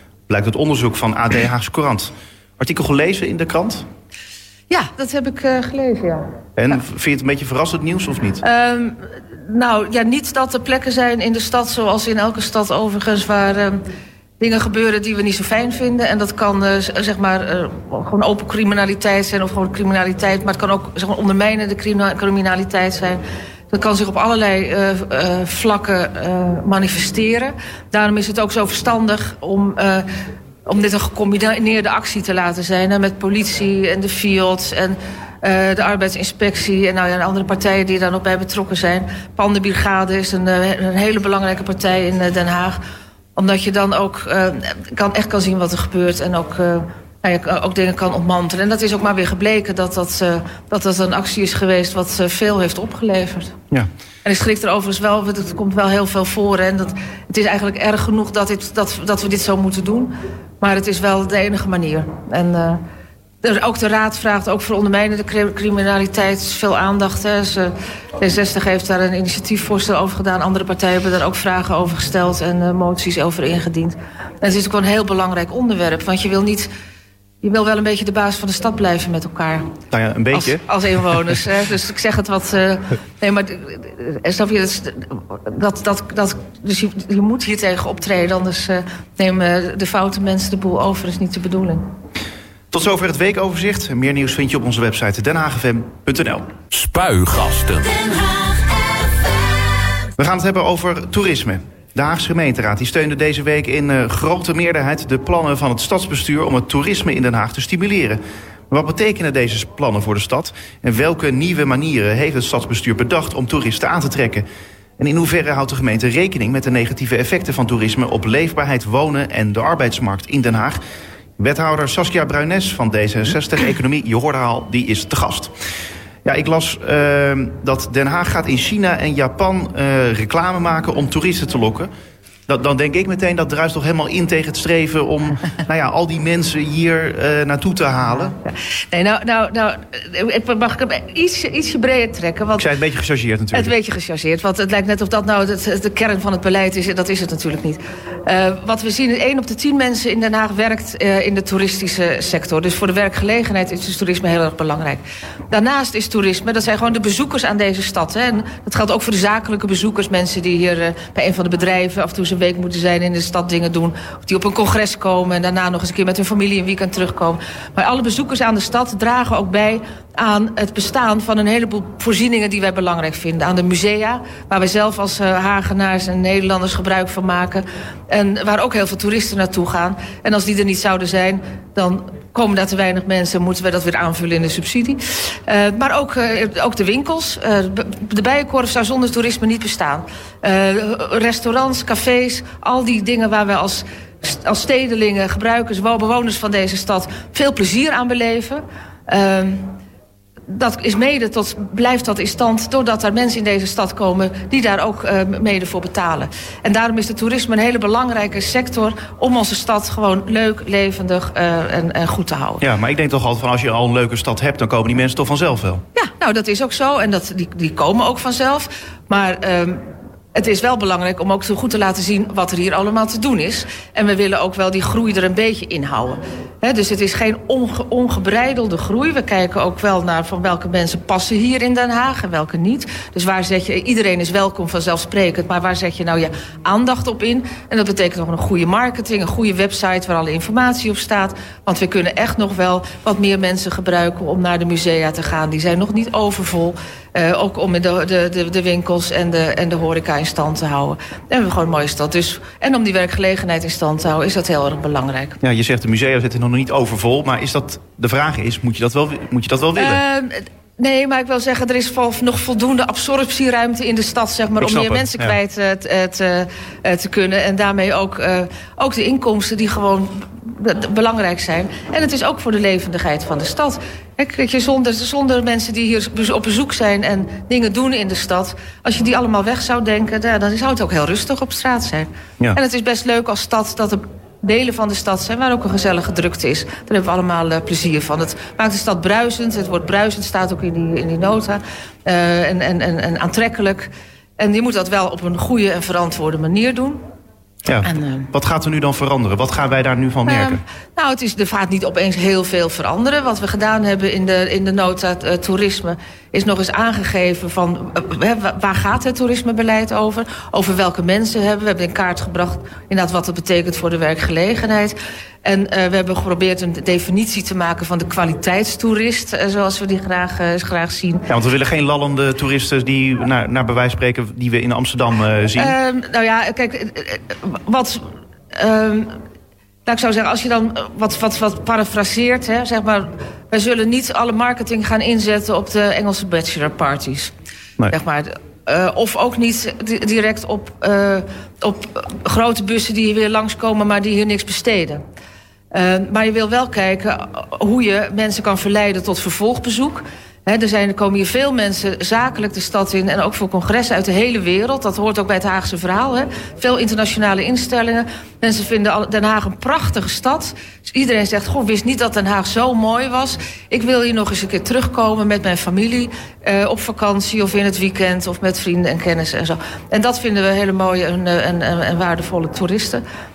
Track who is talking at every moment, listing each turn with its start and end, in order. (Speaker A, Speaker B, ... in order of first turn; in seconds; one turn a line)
Speaker A: 0.3-3.9
Speaker B: 4.7-6.3
Speaker A: 6.6-8.4
Speaker B: 8.4-13.8
Speaker B: 14.4-30.1
Speaker B: 30.6-42.8
Speaker B: 43.4-53.6
Speaker B: 54.2-62.8
Speaker B: 63.4-76.7
Speaker B: 77.4-79.7
Speaker A: 79.9-80.6
Speaker B: 80.3-91.8
Speaker A: 92.7-96.5
Speaker C: 96.7-99.2
Speaker A: 100.2-114.4
Speaker A: 115.0-120.8
Speaker A: 121.4-125.5
Speaker A: 126.2-131.9
Speaker A: 132.5-138.4
Speaker B: 138.4-142.7
Speaker A: 142.6-143.7
Speaker B: 143.5-199.7
Speaker B: 200.5-212.6
Speaker A: 212.6-215.8
Speaker B: 215.9-219.8
Speaker B: 220.3-255.4
Speaker A: 255.4-260.0
Speaker B: 259.8-297.0
Speaker A: 264.6-265.4
Speaker A: 297.6-300.6
Speaker B: 297.8-298.3
Speaker B: 300.2-321.3
Speaker A: 321.3-325.7
Speaker B: 325.6-329.2
Speaker B: 329.9-337.3
Speaker B: 337.9-345.0
Speaker B: 345.7-373.0